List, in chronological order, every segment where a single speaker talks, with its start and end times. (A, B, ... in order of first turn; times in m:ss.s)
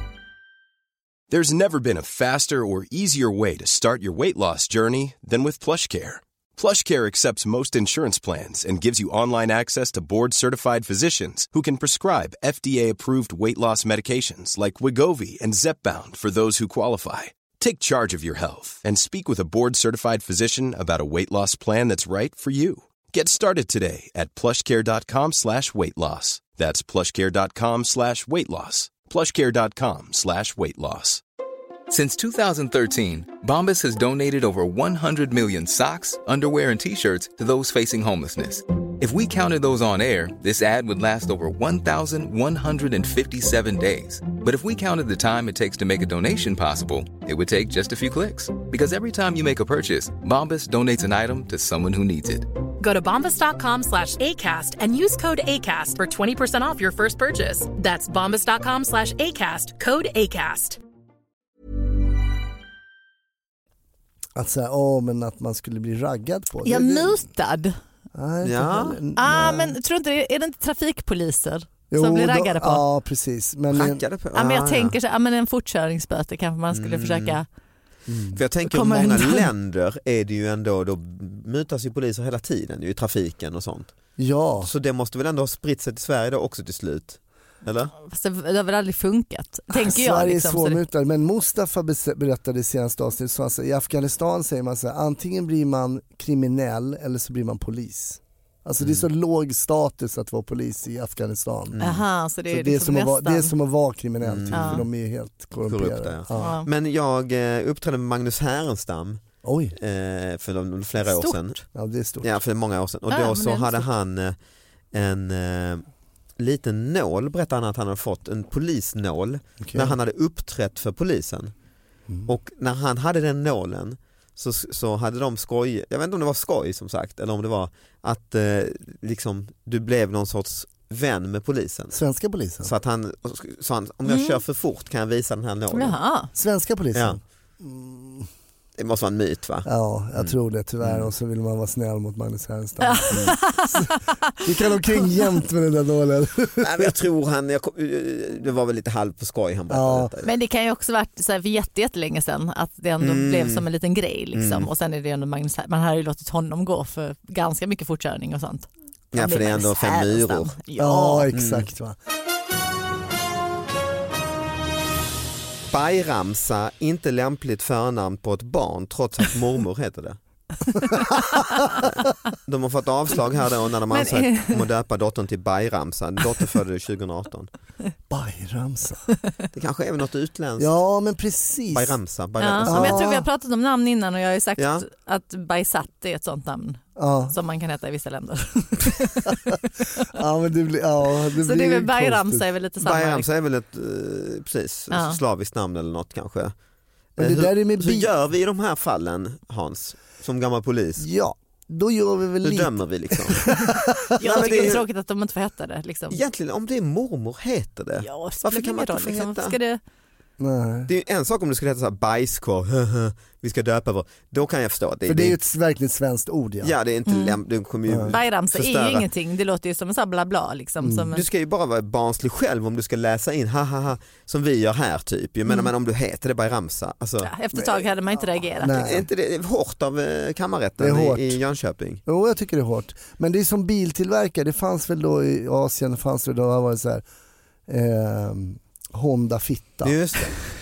0:01.3-0:31.2 A
0:31.9-0:52.5 B
0:52.8-1:00.8 C
1:04.4-1:07.2 D
1:06.6-1:07.8 E
1:08.1-1:09.8 D
1:08.4-1:09.0 F
1:09.2-1:12.8 E
1:11.9-1:14.0 D
1:13.7-1:15.0 F
1:14.4-1:17.5 E
1:16.7-1:17.4 F
1:18.1-1:18.4 D
1:18.3-1:24.0 F
1:18.7-1:19.5 E
1:24.2-1:24.7 D
1:24.6-1:27.9 F
1:28.0-1:30.8 E
1:29.7-1:41.8 D
1:38.8-1:39.0 F
1:41.7-1:42.0 F
1:41.8-1:43.5 E
1:42.5-1:46.5 D
1:44.2-1:44.9 F
1:44.5-1:44.8 E
1:45.6-1:49.2 F
1:46.4-1:46.7 E
1:49.4-1:49.8 D
1:49.8-1:51.7 F
1:51.0-1:51.4 E
1:51.7-1:52.4 D
1:52.2-1:54.4 F
1:53.1-1:53.9 E
1:54.9-1:55.8 F
1:56.4-2:01.5 F
1:59.6-2:00.0 D
2:02.2-2:12.0 F
2:11.9-2:12.7 D
2:12.6-2:16.0 F
2:14.1-2:14.4 E
2:15.7-2:16.3 E
2:16.4-2:18.3 D
2:16.9-2:17.2 F
2:18.8-2:21.1 F
2:19.6-2:23.9 D
2:22.8-2:24.4 E
2:24.4-2:26.9 D
2:24.9-2:25.2 E
2:26.6-2:30.3 F
2:29.7-2:30.1 D
2:30.2-2:41.3 E
2:33.0-2:33.6 F
2:34.3-2:34.7 F
2:39.1-2:40.6 F
2:40.8-2:42.0 D
2:41.3-2:41.7 F
2:45.7-2:50.2 F
2:50.9-2:51.8 E
2:51.8-2:57.5 F
2:53.9-2:54.6 E
2:58.1-2:59.0 D
2:59.5-3:00.7 F
3:00.6-3:02.0 D
3:01.7-3:03.1 F
3:02.4-3:10.1 E
3:02.6-3:03.2 D
3:04.6-3:04.8 F
3:07.0-3:07.4 D
3:10.1-3:12.4 D
3:11.4-3:13.3 E
3:12.8-3:16.5 F
3:14.9-3:15.2 E
3:17.2-3:21.0 F
3:17.2-3:18.1 D
3:21.0-3:24.0 D
3:22.4-3:23.5 F
3:24.1-3:26.2 E
3:24.2-3:24.8 F
3:26.1-3:29.6 F
3:28.0-3:29.8 E
3:30.4-3:30.9 D
3:30.9-3:35.4 F
3:35.0-3:36.7 D
3:36.6-3:39.0 F
3:37.1-3:37.4 E
3:37.9-3:38.1 D
3:38.1-3:41.2 E
3:40.8-3:41.1 D
3:41.1-3:47.3 F
3:47.2-3:48.8 E
3:48.6-3:49.1 D
3:48.7-3:52.0 F
3:50.8-3:51.4 D
3:52.0-3:57.0 D
3:57.7-4:00.0 D
3:59.8-4:00.4 F